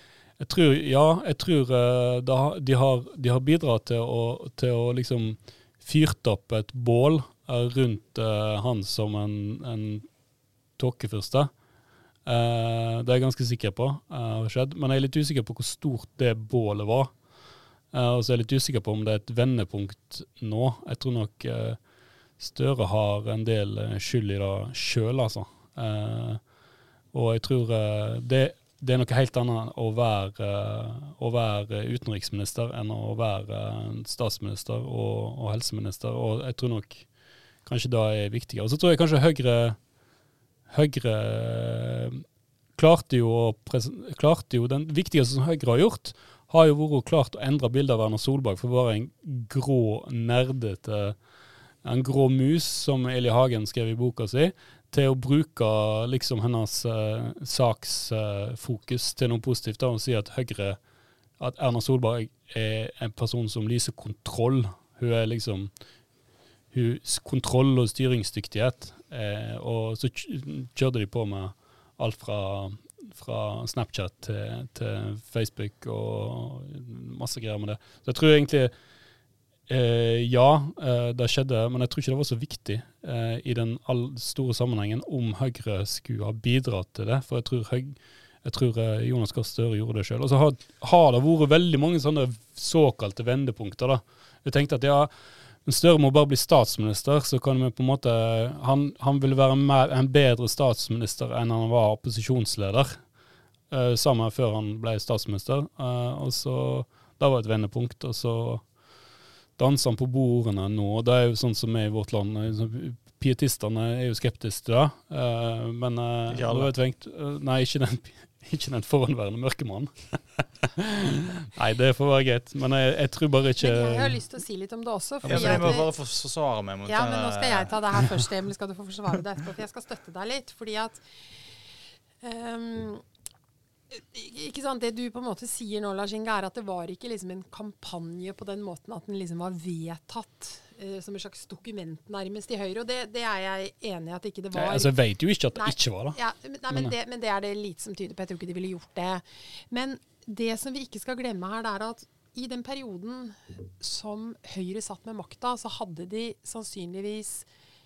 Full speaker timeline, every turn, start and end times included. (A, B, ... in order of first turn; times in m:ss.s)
0:00.4-0:10.1 A
0:10.8-0:11.5 A
0:12.2-0:17.1 A
0:17.9-0:21.8 A
0:22.4-0:26.4 A
0:27.1-0:37.1 A
0:37.6-0:39.8 A
0:40.7-0:42.2 A
0:42.8-0:51.2 A
0:51.8-1:00.8 A
1:01.4-1:05.7 A
1:06.7-1:18.7 A
1:19.7-1:35.1 A
1:35.6-1:43.0 A
1:43.7-1:48.7 A
1:49.6-2:04.2 A
1:56.3-1:56.7 B
2:03.6-2:05.9 C
2:05.2-2:05.8 A
2:05.2-2:08.0 B
2:06.8-2:11.0 C
2:12.2-2:13.0 C
2:13.9-2:24.9 C
2:24.5-2:26.2 A
2:25.6-2:37.5 C